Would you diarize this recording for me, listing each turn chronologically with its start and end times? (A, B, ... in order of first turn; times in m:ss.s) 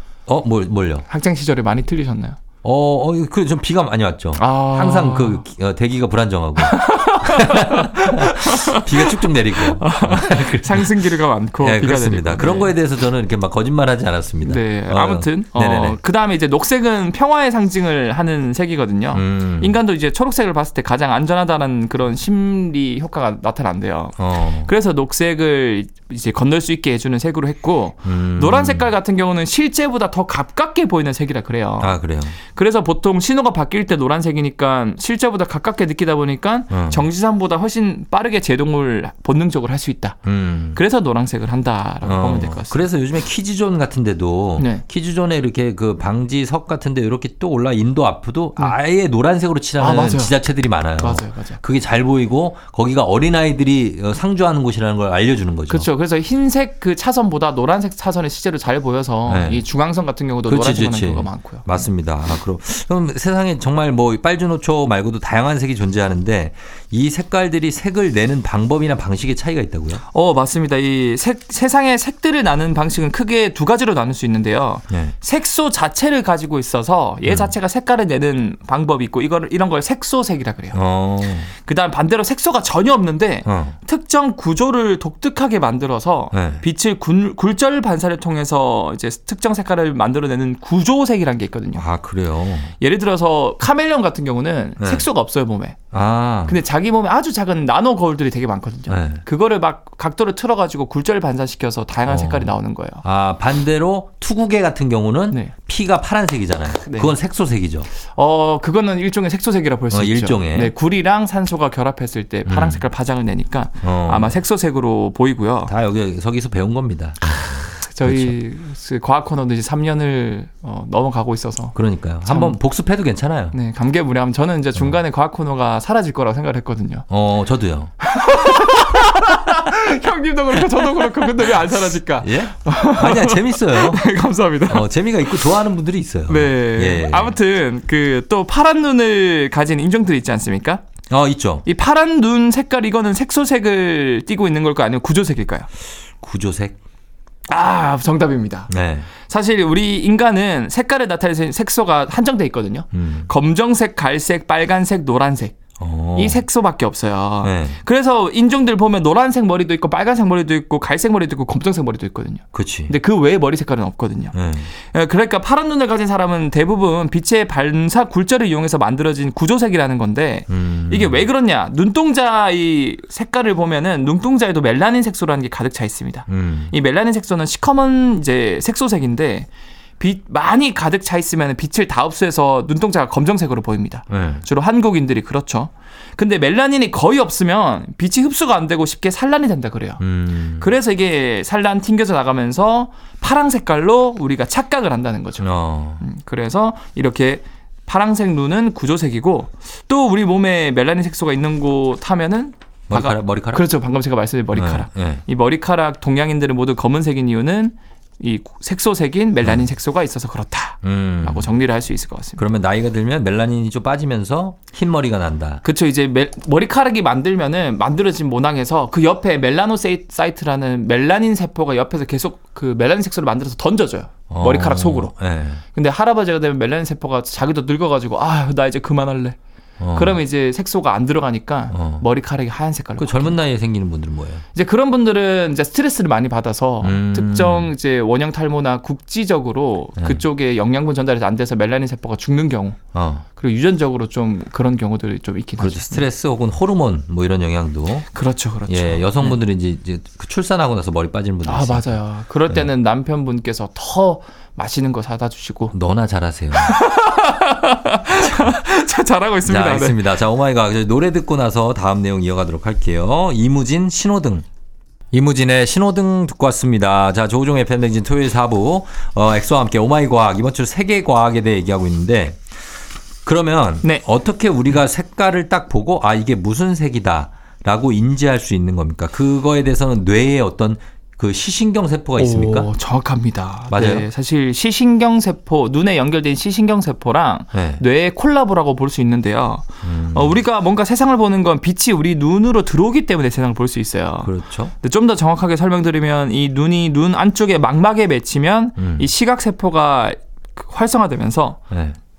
0:00.3-0:01.0 A
0:01.1-0:02.4 B
0:02.6-0:11.0 A
0:04.4-0:05.4 B
0:06.6-0:12.7 B
0:11.6-0:16.0 A
0:14.4-0:40.2 B
0:19.1-0:19.8 A
0:24.2-0:24.7 A
0:28.0-0:28.9 A
0:31.8-0:32.4 A
0:36.7-0:37.1 A
0:40.2-0:40.8 A
0:40.7-0:42.8 B
0:42.0-0:55.9 A
0:44.6-0:44.8 B
0:49.8-0:50.4 B
0:51.0-0:51.6 B
0:55.7-1:01.6 B
0:59.3-0:59.6 A
1:00.4-1:10.0 A
1:10.1-1:20.8 B
1:14.9-1:15.1 A
1:17.2-1:17.5 A
1:20.7-1:21.5 A
1:21.5-1:31.8 B
1:23.4-1:23.8 A
1:26.3-1:26.6 A
1:31.8-1:32.7 A
1:32.8-1:35.8 B
1:34.8-1:35.0 A
1:35.9-1:36.6 A
1:36.4-1:43.0 B
1:38.9-1:39.2 A
1:42.1-1:42.5 A
1:43.0-1:47.9 A
1:46.8-1:47.2 B
1:48.1-1:55.7 B
1:49.9-1:50.7 A
1:52.4-1:52.8 A
1:53.8-1:54.4 A
1:55.7-1:58.3 A
1:57.7-2:02.5 B
2:01.7-2:03.5 A
2:03.5-2:07.1 B
2:07.1-2:07.9 A
2:08.0-2:15.4 B
2:10.8-2:11.5 A
2:12.2-2:14.0 A
2:14.7-2:17.4 A
2:16.3-2:20.8 B
2:21.1-2:21.6 A
2:21.6-2:25.7 B
2:26.2-2:26.8 A
2:27.5-2:28.7 B
2:28.7-2:29.1 A
2:29.2-2:35.6 B
2:32.9-2:33.3 A
2:35.8-2:36.4 A
2:36.2-2:59.5 B
2:37.4-2:37.8 A
2:42.5-2:42.9 A
2:44.3-2:44.7 A
2:50.5-2:51.3 A
2:56.3-2:56.7 A
3:00.0-3:10.0 B
3:04.1-3:04.4 A
3:10.0-3:10.7 A
3:10.6-3:15.5 B
3:15.4-3:16.0 A
3:16.0-3:32.4 B
3:22.9-3:23.6 A
3:24.5-3:25.2 A
3:30.8-3:31.5 A
3:32.4-3:35.6 A
3:35.6-3:45.1 B
3:44.3-3:45.6 A
3:45.7-3:49.4 B
3:49.8-3:50.2 A
3:49.9-3:53.4 B
3:51.7-3:52.0 A
3:53.0-3:54.4 A
3:54.5-4:02.8 B
3:56.8-3:57.7 A
4:02.9-4:03.2 A
4:03.3-4:06.0 B
4:05.6-4:08.0 A
4:08.1-4:09.4 B
4:08.7-4:12.0 A
4:11.4-4:15.7 B
4:15.7-4:16.8 A
4:16.5-4:20.1 B
4:18.2-4:18.6 A
4:19.4-4:24.4 A
4:25.1-4:32.4 A
4:33.2-4:42.7 A
4:42.2-5:01.6 B
4:43.7-4:44.1 A
4:47.5-4:47.8 A
4:49.8-4:50.4 A
4:54.2-4:54.7 A
4:58.8-4:59.1 A
5:01.7-5:02.0 A